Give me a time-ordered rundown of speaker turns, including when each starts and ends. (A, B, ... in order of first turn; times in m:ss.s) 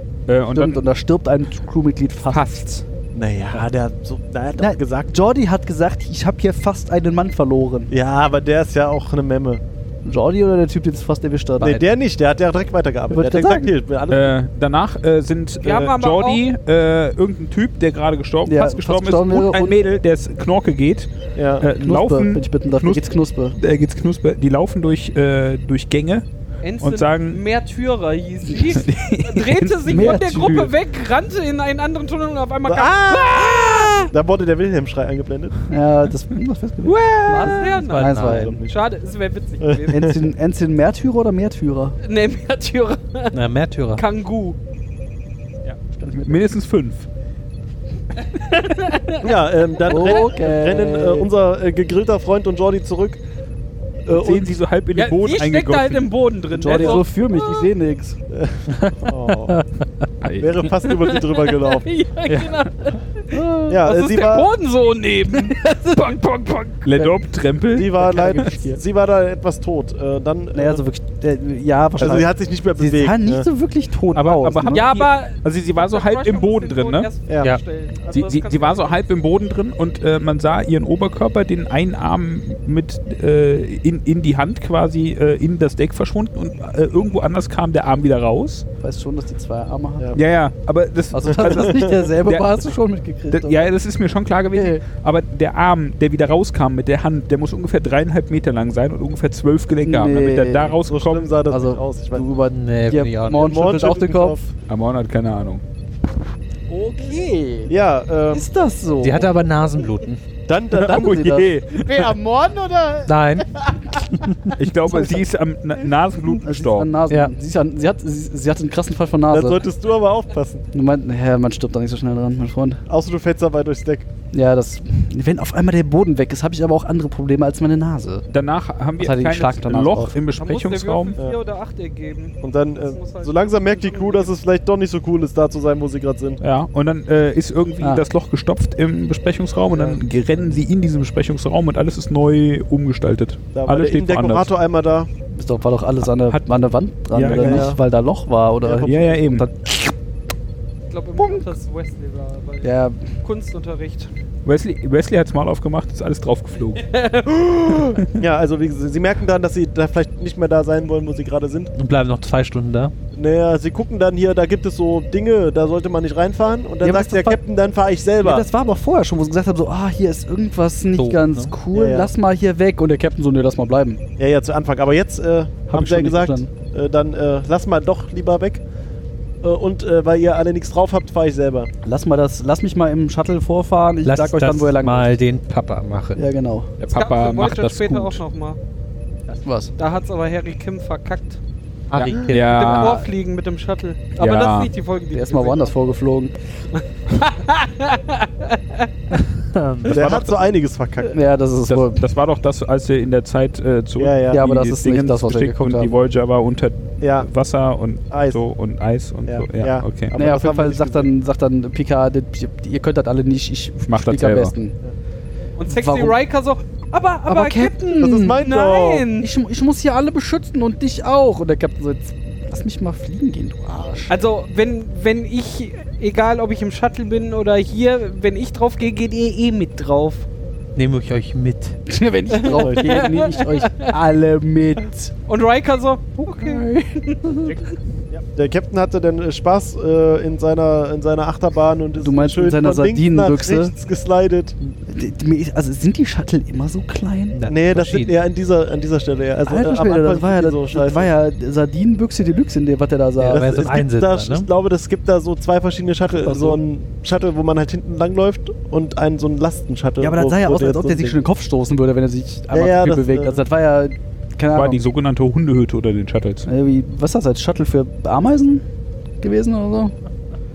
0:00.3-0:00.8 A
0:00.5-0:02.7 B
0:02.3-0:02.8 A
0:03.1-0:05.1 C
0:04.6-0:07.9 B
0:07.9-0:09.6 C
0:10.0-0:11.8 B
0:11.6-0:14.4 C
0:13.1-0:13.7 B
0:14.1-0:26.3 A
0:15.6-0:16.4 D
0:18.5-0:19.8 B
0:21.4-0:21.7 C
0:21.8-0:23.6 B
0:26.6-0:34.1 D
0:26.8-0:27.4 A
0:28.5-0:30.7 A
0:29.9-0:30.7 B
0:32.7-0:35.6 C
0:35.7-0:38.7 B
0:36.8-0:37.7 A
0:37.3-0:40.2 D
0:37.8-0:38.5 E
0:38.2-0:38.7 C
0:39.6-0:40.2 C
0:39.9-0:42.0 B
0:42.0-0:43.4 D
0:43.3-0:44.0 E
0:44.0-0:44.6 D
0:46.0-0:46.4 B
0:46.1-0:47.1 A
0:48.3-0:50.3 D
0:49.2-0:53.2 C
0:49.8-0:51.3 B
0:54.1-0:54.5 C
0:54.1-0:56.1 A
0:55.0-0:57.7 D
0:56.5-0:58.2 B
0:58.3-0:59.6 C
0:58.7-1:00.1 E
1:00.2-1:00.7 A
1:00.4-1:01.9 C
1:00.9-1:06.7 D
1:02.3-1:02.6 A
1:03.3-1:03.8 B
1:03.7-1:04.5 C
1:06.0-1:07.9 A
1:07.7-1:10.8 C
1:08.0-1:08.8 B
1:10.5-1:14.9 B
1:12.0-1:13.5 C
1:14.1-1:17.1 A
1:14.7-1:19.0 D
1:18.1-1:28.7 A
1:28.8-1:30.2 B
1:30.1-1:32.7 A
1:31.1-1:33.7 B
1:31.4-1:31.9 C
1:33.3-1:41.3 A
1:34.5-1:34.8 B
1:39.8-1:40.8 B
1:40.9-1:42.3 C
1:41.5-1:44.4 B
1:42.5-1:43.4 E
1:43.3-1:44.5 C
1:44.7-1:45.6 A
1:46.7-1:47.7 B
1:47.7-1:48.5 C
1:48.3-1:49.3 B
1:49.0-1:50.2 E
1:50.5-1:51.5 C
1:50.8-1:52.2 A
1:50.8-1:54.0 B
1:53.1-1:54.5 E
1:54.6-1:56.9 A
1:54.9-1:55.2 B
1:56.3-1:59.7 B
1:59.3-2:00.6 C
2:00.7-2:02.8 B
2:02.9-2:04.1 C
2:04.3-2:08.3 B
2:08.3-2:11.2 A
2:09.0-2:10.2 B
2:10.4-2:14.3 D
2:12.4-2:16.4 C
2:16.4-2:24.5 A
2:23.5-2:25.1 C
2:25.3-2:29.9 B
2:26.2-2:26.4 A
2:27.1-2:27.8 A
2:27.3-2:27.8 C
2:28.6-2:29.4 C
2:28.8-2:29.5 A
2:30.9-2:34.1 D
2:31.2-2:31.5 B
2:32.6-2:33.2 B
2:34.4-2:36.8 A
2:36.8-2:38.0 D
2:38.2-2:41.7 C
2:41.8-2:42.9 E
2:43.1-2:48.5 C
2:46.8-2:47.4 B
2:48.2-2:54.0 B
2:51.0-2:51.6 E
2:51.7-2:52.1 C
2:54.2-2:58.6 C
2:55.7-2:56.5 B
2:59.4-3:01.7 C
3:01.8-3:05.2 B
3:04.0-3:06.2 E
3:06.2-3:06.7 B
3:06.8-3:08.2 A
3:06.9-3:08.6 D
3:09.4-3:09.7 B
3:09.8-3:11.4 D
3:11.9-3:12.9 E
3:11.9-3:13.1 A
3:12.3-3:15.7 D
3:14.2-3:14.7 A
3:15.1-3:16.4 B
3:16.8-3:18.9 D
3:19.3-3:20.0 E
3:19.9-3:20.5 A
3:19.9-3:21.2 C
3:21.1-3:22.0 B
3:21.7-3:30.2 A
3:24.0-3:24.4 C
3:24.3-3:26.0 B
3:27.0-3:27.3 C
3:28.1-3:28.4 C
3:29.2-3:31.1 C
3:30.2-3:34.8 B
3:33.8-3:34.5 A
3:35.6-3:39.3 D
3:35.7-3:36.2 B
3:37.3-3:38.4 B
3:38.0-3:39.1 C
3:39.2-3:44.2 B
3:44.1-3:50.3 D
3:50.8-3:51.8 E
3:51.9-3:55.1 B
3:52.3-3:53.9 D
3:52.5-3:53.1 C
3:55.3-3:57.5 D
3:56.2-3:57.4 B
3:57.4-3:57.8 A
3:58.1-4:04.6 C
4:02.0-4:03.7 B
4:04.8-4:07.4 B
4:07.3-4:08.2 E
4:07.5-4:11.1 C
4:09.4-4:13.7 B
4:13.2-4:21.2 C
4:13.3-4:14.5 E
4:16.1-4:16.6 B
4:20.0-4:24.8 B
4:22.5-4:23.4 C
4:24.5-4:26.5 A
4:26.5-4:28.6 B
4:29.2-4:29.9 B